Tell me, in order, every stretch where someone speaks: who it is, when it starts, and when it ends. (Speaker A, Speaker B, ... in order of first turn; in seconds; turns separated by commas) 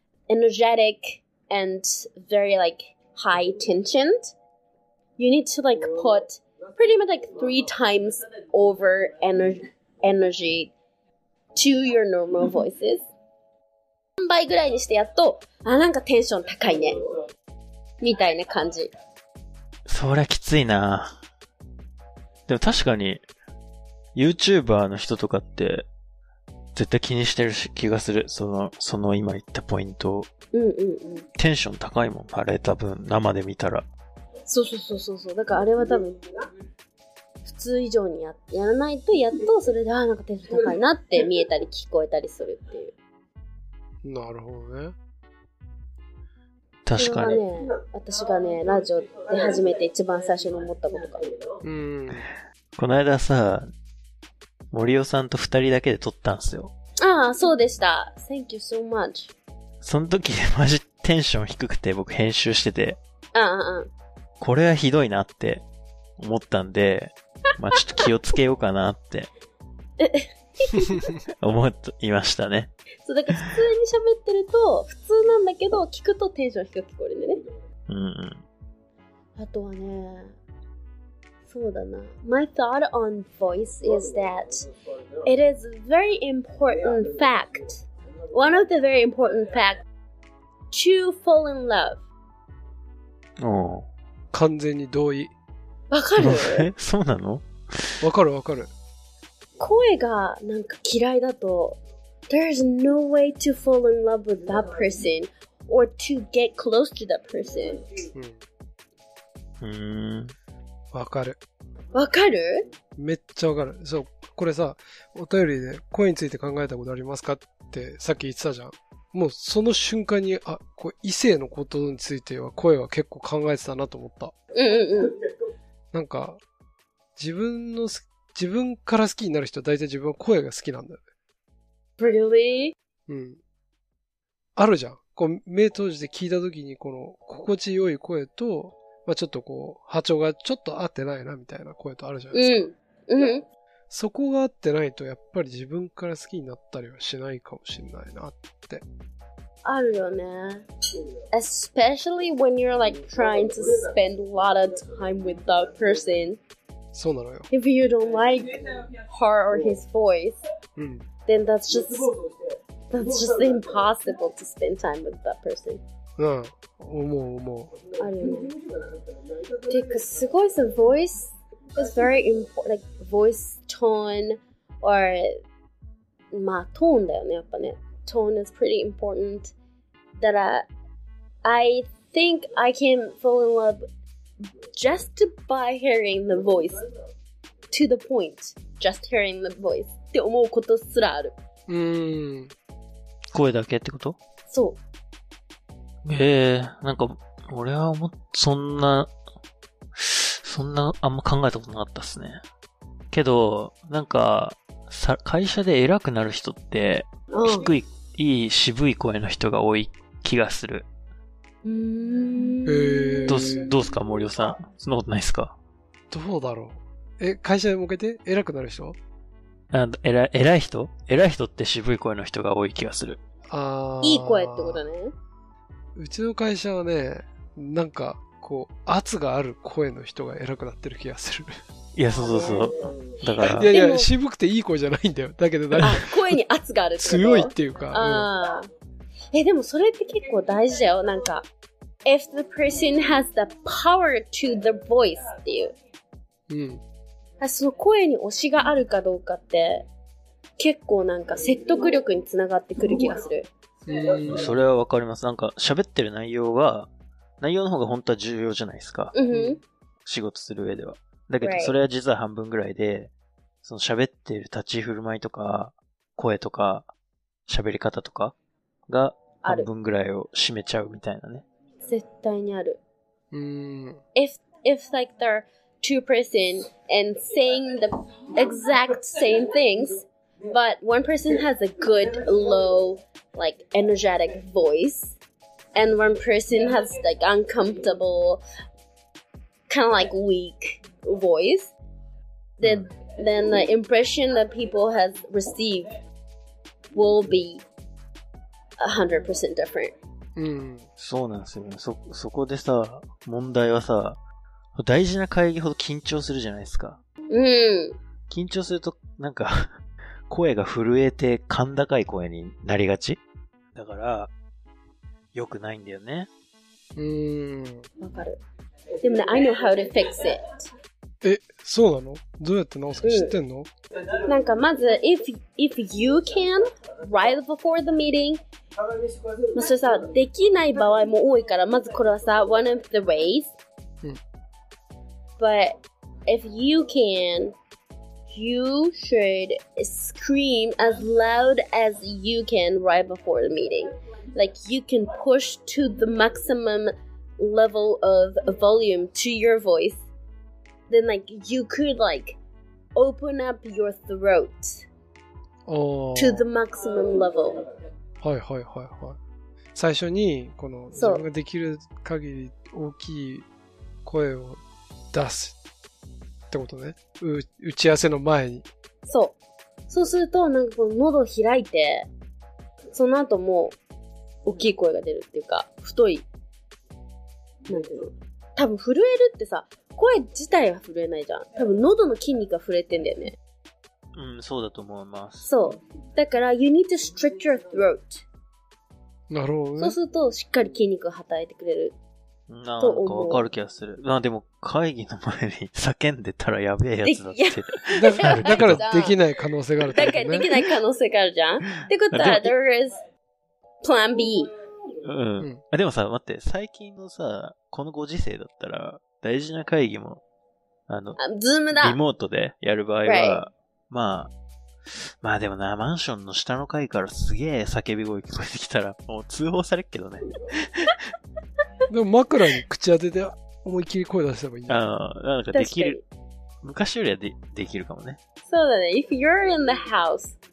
Speaker A: 0.3-4.3, Speaker A: 5.2-10.7, Speaker A: 11.6-13.1, Speaker A: 14.2-17.0, Speaker A: 18.0-18.9, Speaker B: 19.9-21.1, Speaker B: 22.5-23.2, Speaker B: 24.1-25.9, Speaker B: 26.8-30.3, Speaker A: 30.5-31.2, Speaker B: 31.4-33.9, Speaker A: 34.5-36.2, Speaker A: 37.5-42.9, Speaker C: 44.0-45.0, Speaker B: 46.9-47.4, Speaker A: 47.0-51.2, Speaker C: 51.6-52.2, Speaker B: 52.8-53.7, Speaker B: 54.7-56.7, Speaker A: 57.0-59.3, Speaker B: 59.8-63.0, Speaker A: 63.4-63.9, Speaker B: 64.4-65.6, Speaker B: 66.2-69.3, Speaker A: 67.8-68.0, Speaker A: 70.0-71.2, Speaker B: 71.4-72.7, Speaker A: 73.0-77.4, Speaker B: 77.9-78.4, Speaker A: 79.4-80.3, Speaker A: 81.5-84.7, Speaker A: 85.2-89.8, Speaker A: 90.7-92.0, Speaker B: 93.4-93.9, Speaker C: 94.3-95.3, Speaker A: 95.9-96.7, Speaker B: 96.2-98.0, Speaker C: 98.0-98.7, Speaker A: 99.6-101.8, Speaker A: 102.3-107.9, Speaker B: 109.6-110.3, Speaker C: 110.9-111.4, Speaker A: 111.9-112.6, Speaker C: 113.0-124.3, Speaker A: 124.5-125.1, Speaker C: 125.9-126.4, Speaker C: 127.2-131.0, Speaker A: 132.0-132.7, Speaker C: 133.1-133.4, Speaker C: 134.6-142.6, Speaker A: 142.3-143.5, Speaker C: 143.9-148.8, Speaker A: 149.6-150.6, Speaker A: 151.3-156.4, Speaker C: 156.9-157.5, Speaker A: 157.5-160.4, Speaker C: 160.8-161.0, Speaker A: 161.3-162.1, Speaker A: 162.9-165.8, Speaker C: 166.2-167.7, Speaker A: 168.0-168.5, Speaker A: 169.7-175.4, Speaker A: 176.3-179.5, Speaker A: 180.2-180.7, Speaker A: 181.4-183.8, Speaker A: 184.7-186.8, Speaker A: 187.7-191.3, Speaker C: 191.7-192.5, Speaker B: 193.3-194.2, Speaker A: 194.5-194.8, Speaker B: 196.1-199.1, Speaker B: 200.0-202.4, Speaker B: 203.1-210.9, Speaker A: 207.3-207.7, Speaker A: 211.6-213.7, Speaker C: 212.7-213.7, Speaker B: 213.3-215.6, Speaker C: 216.1-219.0, Speaker B: 219.7-223.2, Speaker C: 223.5-224.8, Speaker A: 224.0-225.1, Speaker C: 226.0-231.6, Speaker B: 231.9-233.7, Speaker A: 233.4-234.1, Speaker C: 233.4-236.3, Speaker A: 235.8-238.7, Speaker C: 237.0-238.3, Speaker A: 239.3-241.5, Speaker A: 242.1-245.8, Speaker C: 246.5-246.8, Speaker A: 247.4-249.9, Speaker A: 250.6-253.5, Speaker C: 253.9-254.6, Speaker B: 254.3-256.9, Speaker B: 257.4-259.1, Speaker A: 259.1-259.6, Speaker B: 260.1-263.1, Speaker A: 261.4-261.7, Speaker B: 263.6-266.9, Speaker B: 267.5-268.3, Speaker B: 268.9-271.4, Speaker A: 269.4-269.7, Speaker A: 271.9-272.8, Speaker C: 273.3-274.0, Speaker A: 274.1-285.1, Speaker A: 285.7-288.4, Speaker A: 289.7-291.7, Speaker A: 292.6-295.9, Speaker B: 292.6-292.9, Speaker A: 296.9-297.6, Speaker A: 298.8-299.9, Speaker C: 300.4-300.9, Speaker B: 301.0-304.2, Speaker B: 304.8-307.0, Speaker A: 307.3-308.0, Speaker B: 308.3-309.8, Speaker B: 310.3-313.2, Speaker B: 313.8-314.3, Speaker B: 315.3-316.3, Speaker C: 317.0-317.9, Speaker A: 318.0-318.4, Speaker A: 319.0-320.7, Speaker C: 321.2-323.7, Speaker A: 323.0-323.3, Speaker A: 324.2-328.4, Speaker A: 329.5-333.5, Speaker A: 335.4-337.6, Speaker A: 338.3-350.1, Speaker A: 350.9-352.4, Speaker A: 352.9-354.9, Speaker C: 355.6-356.5, Speaker A: 356.1-357.6, Speaker C: 358.2-359.2, Speaker C: 359.8-363.5, Speaker A: 361.0-361.2, Speaker C: 364.1-364.6, Speaker C: 365.1-365.6, Speaker C: 366.5-368.7, Speaker A: 369.1-369.4, Speaker A: 369.9-372.1, Speaker A: 372.9-373.8, Speaker A: 374.4-376.2, Speaker A: 377.7-383.4, Speaker B: 384.1-385.5, Speaker A: 385.4-388.2, Speaker C: 389.3-390.0, Speaker A: 389.8-391.9, Speaker B: 392.5-398.8, Speaker A: 392.8-393.4, Speaker A: 397.1-399.2, Speaker C: 398.0-400.5, Speaker A: 399.9-403.0, Speaker B: 402.1-402.5, Speaker A: 403.8-404.5, Speaker B: 405.0-410.2, Speaker B: 410.9-411.2, Speaker A: 411.2-412.0, Speaker B: 411.7-414.3, Speaker A: 413.1-413.4, Speaker B: 414.9-421.0, Speaker C: 421.9-424.8, Speaker B: 424.7-426.0, Speaker A: 425.5-426.0, Speaker B: 426.6-428.2, Speaker A: 428.5-430.4